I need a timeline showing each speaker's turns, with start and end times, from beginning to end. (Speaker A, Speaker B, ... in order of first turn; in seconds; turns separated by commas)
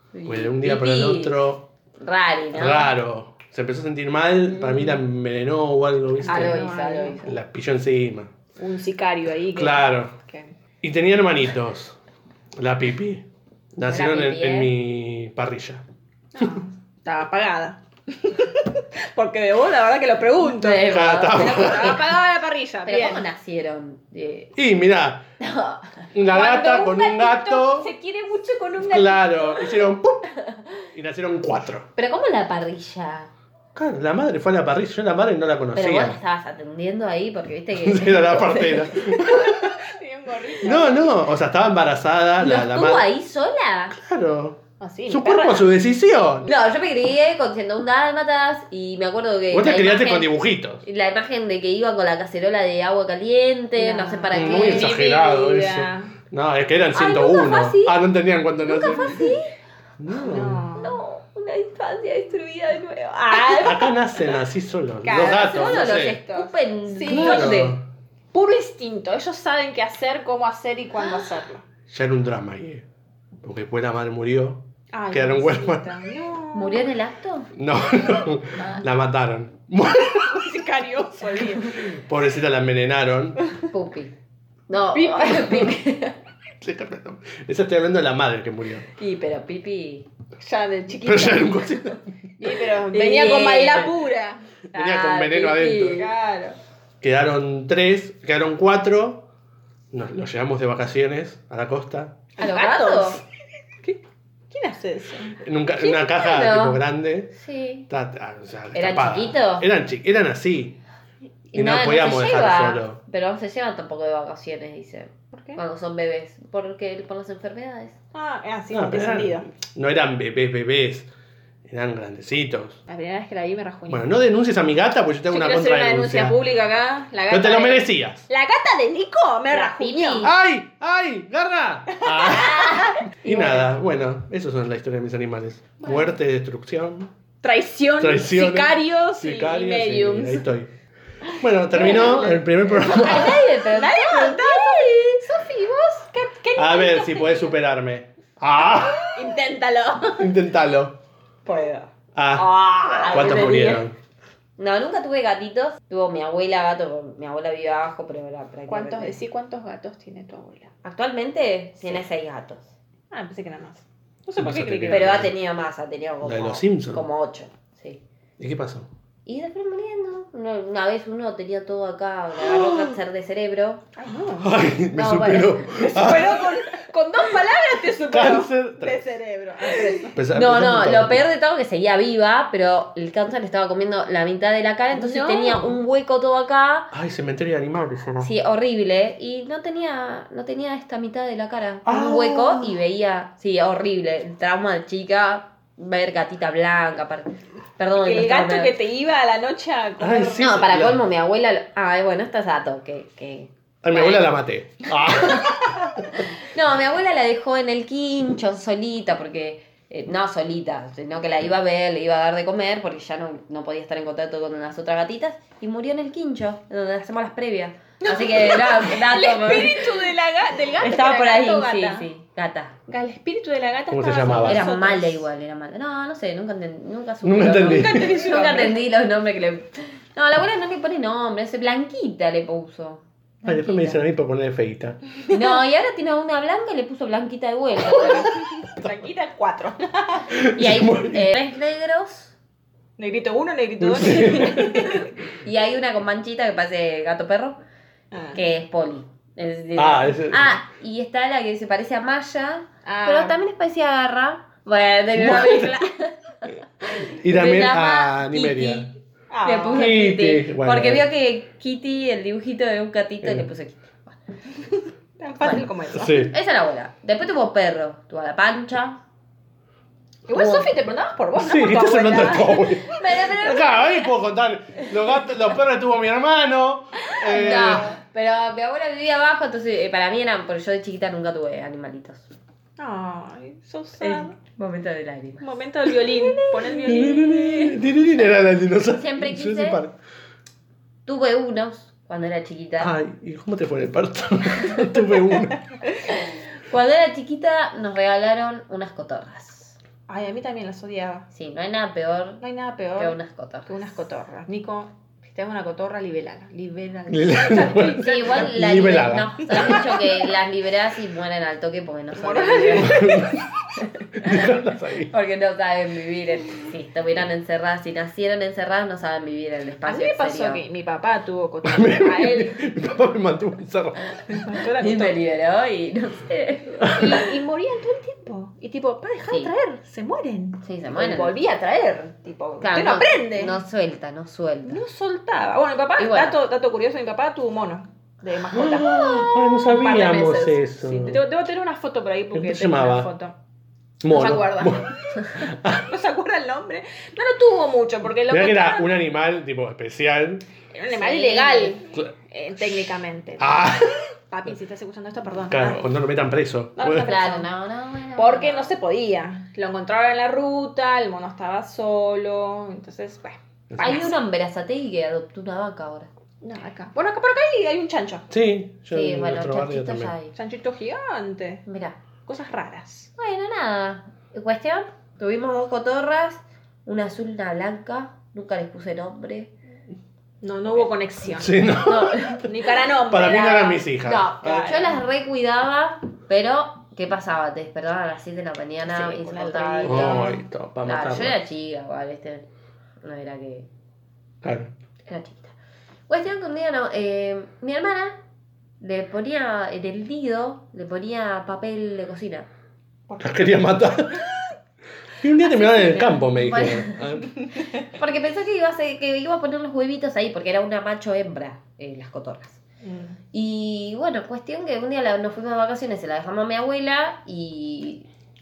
Speaker A: 0.1-1.4, Speaker B: 0.2-1.7, Speaker A: 2.0-2.9, Speaker B: 2.5-6.7, Speaker A: 4.6-5.0, Speaker C: 6.2-7.2, Speaker A: 6.2-7.4, Speaker B: 7.2-8.3, Speaker C: 8.6-10.5, Speaker B: 9.5-10.1, Speaker B: 10.8-12.0, Speaker B: 12.6-15.8, Speaker A: 13.8-14.7, Speaker C: 16.3-23.3, Speaker A: 20.4-21.7, Speaker B: 20.9-22.0, Speaker A: 22.9-24.5, Speaker B: 24.6-25.2, Speaker A: 25.4-26.1, Speaker B: 26.1-27.9, Speaker C: 26.3-29.9, Speaker B: 28.9-30.3, Speaker B: 30.9-31.9, Speaker A: 31.9-33.3, Speaker B: 33.7-36.2, Speaker A: 35.7-39.0, Speaker B: 37.8-39.8, Speaker C: 39.1-41.2, Speaker B: 40.6-43.1, Speaker A: 42.4-43.9, Speaker B: 43.9-46.5, Speaker C: 44.8-45.7, Speaker A: 46.4-50.3, Speaker B: 49.5-50.8, Speaker A: 50.8-55.0, Speaker C: 53.8-56.1, Speaker B: 54.3-59.2, Speaker A: 56.9-58.0, Speaker A: 58.6-59.5, Speaker B: 60.0-60.7, Speaker C: 60.2-61.0, Speaker A: 60.8-63.9, Speaker B: 63.5-66.2, Speaker C: 65.0-67.7, Speaker A: 65.2-67.8, Speaker B: 67.1-67.8, Speaker C: 68.3-71.6, Speaker B: 71.9-72.8, Speaker B: 73.4-75.9, Speaker C: 74.9-76.9, Speaker A: 76.5-77.5, Speaker B: 77.5-80.3, Speaker C: 80.0-81.8, Speaker B: 81.8-83.4, Speaker A: 83.7-84.1, Speaker A: 84.7-86.2, Speaker C: 84.9-85.7, Speaker B: 86.6-88.9, Speaker A: 89.0-90.1, Speaker C: 90.4-91.7, Speaker B: 91.0-92.0, Speaker C: 92.4-94.4, Speaker A: 92.9-93.9, Speaker B: 94.7-96.0, Speaker A: 94.7-96.1, Speaker C: 95.7-96.6, Speaker B: 97.0-99.2, Speaker B: 99.9-102.2, Speaker C: 102.4-103.2, Speaker A: 102.4-103.2, Speaker C: 104.5-105.4, Speaker B: 105.4-107.3, Speaker A: 105.8-107.9, Speaker B: 107.9-110.8, Speaker A: 108.7-109.7, Speaker A: 111.5-117.9, Speaker B: 111.5-113.0, Speaker C: 115.3-115.6, Speaker C: 118.1-119.5, Speaker B: 118.7-121.1, Speaker B: 121.7-122.8, Speaker C: 122.9-124.1, Speaker B: 123.9-126.4, Speaker C: 125.3-130.3, Speaker B: 127.3-128.2, Speaker A: 129.5-130.3, Speaker B: 130.2-137.1, Speaker C: 132.0-133.0, Speaker A: 132.3-133.7, Speaker C: 137.4-140.4, Speaker B: 138.0-140.7, Speaker B: 141.4-143.4, Speaker C: 141.7-147.5, Speaker A: 141.7-145.2, Speaker B: 146.6-149.1, Speaker C: 148.6-150.3, Speaker B: 150.2-151.0, Speaker C: 151.4-151.9, Speaker B: 152.1-153.9, Speaker A: 152.3-153.8, Speaker C: 152.8-153.7, Speaker A: 154.6-159.2, Speaker C: 158.7-160.7, Speaker A: 160.8-162.7, Speaker C: 163.1-165.3, Speaker B: 164.4-165.3, Speaker A: 164.9-168.0, Speaker B: 166.2-167.1, Speaker B: 168.4-168.9, Speaker A: 169.2-173.8, Speaker B: 172.4-172.9, Speaker C: 173.9-174.6, Speaker B: 174.4-176.6, Speaker A: 174.9-175.8, Speaker C: 175.7-180.2, Speaker B: 178.1-179.1, Speaker B: 180.1-181.2, Speaker A: 180.3-186.9, Speaker C: 184.9-185.8, Speaker B: 186.9-188.3, Speaker A: 188.2-198.7, Speaker B: 191.8-192.7, Speaker C: 197.9-200.5, Speaker B: 200.0-201.0, Speaker A: 200.4-204.2, Speaker B: 203.8-206.0, Speaker A: 206.4-220.0, Speaker C: 218.0-222.1, Speaker A: 220.8-222.7, Speaker C: 222.9-225.2, Speaker B: 223.9-224.6, Speaker A: 224.4-234.0, Speaker B: 227.2-228.1, Speaker C: 227.5-228.8, Speaker B: 233.4-235.0, Speaker A: 235.3-238.3, Speaker C: 238.0-240.3, Speaker B: 240.3-241.4, Speaker A: 240.5-242.3, Speaker C: 243.0-245.1, Speaker B: 243.8-245.0, Speaker A: 245.4-247.6, Speaker C: 248.1-248.4, Speaker A: 248.3-258.9, Speaker B: 249.8-250.6, Speaker C: 252.8-253.4, Speaker B: 255.1-255.8, Speaker B: 256.9-258.9, Speaker C: 259.3-259.9, Speaker A: 259.4-264.1, Speaker B: 259.7-261.1, Speaker C: 265.2-266.2, Speaker A: 265.4-269.0, Speaker B: 265.9-266.3, Speaker C: 270.3-274.1, Speaker A: 270.3-270.7, Speaker B: 271.3-277.9, Speaker A: 277.1-282.3, Speaker C: 282.8-284.3, Speaker A: 284.0-287.0, Speaker C: 285.4-287.8, Speaker B: 286.8-289.9, Speaker A: 288.9-289.8, Speaker A: 291.1-292.9, Speaker B: 292.8-295.6, Speaker A: 296.1-299.8, Speaker C: 300.1-301.3, Speaker A: 301.3-302.4, Speaker C: 302.4-303.1, Speaker A: 303.0-303.8, Speaker C: 303.7-308.5, Speaker B: 307.1-309.9, Speaker A: 307.8-313.2, Speaker C: 312.1-313.4, Speaker B: 312.8-313.4, Speaker A: 313.8-314.5, Speaker B: 314.1-315.1, Speaker A: 315.1-320.6, Speaker C: 319.8-322.6, Speaker B: 321.6-324.4, Speaker C: 324.3-325.2, Speaker A: 324.8-327.0, Speaker B: 326.8-327.1, Speaker C: 326.9-333.6, Speaker A: 330.6-331.3, Speaker A: 332.6-334.8, Speaker C: 334.7-343.4, Speaker A: 336.0-336.4, Speaker B: 338.5-341.2, Speaker B: 342.3-343.1, Speaker B: 344.0-345.9, Speaker C: 344.1-348.9, Speaker B: 348.3-350.4, Speaker C: 350.7-353.7, Speaker A: 350.9-351.8, Speaker B: 351.9-354.1, Speaker C: 354.3-355.8, Speaker B: 355.5-357.1, Speaker C: 356.8-357.5, Speaker A: 356.8-358.8, Speaker C: 358.2-364.1, Speaker B: 363.7-364.1, Speaker A: 363.8-366.1, Speaker C: 366.4-368.3, Speaker B: 368.3-370.1, Speaker A: 368.9-370.3, Speaker C: 370.3-371.6, Speaker A: 371.6-371.9, Speaker C: 372.2-373.1, Speaker A: 373.2-379.5, Speaker C: 380.4-381.7, Speaker B: 381.3-382.5, Speaker A: 381.8-382.4, Speaker C: 382.4-383.9, Speaker B: 383.0-384.8, Speaker A: 384.0-392.5, Speaker C: 384.6-384.9, Speaker C: 388.8-390.4, Speaker B: 389.8-391.4, Speaker A: 393.0-393.7, Speaker B: 394.4-394.7, Speaker A: 395.1-395.5, Speaker A: 396.1-398.2, Speaker A: 398.8-402.5, Speaker B: 403.2-404.3, Speaker B: 405.2-407.3, Speaker A: 405.6-407.0, Speaker A: 407.8-412.6, Speaker C: 412.8-413.2, Speaker A: 413.3-418.1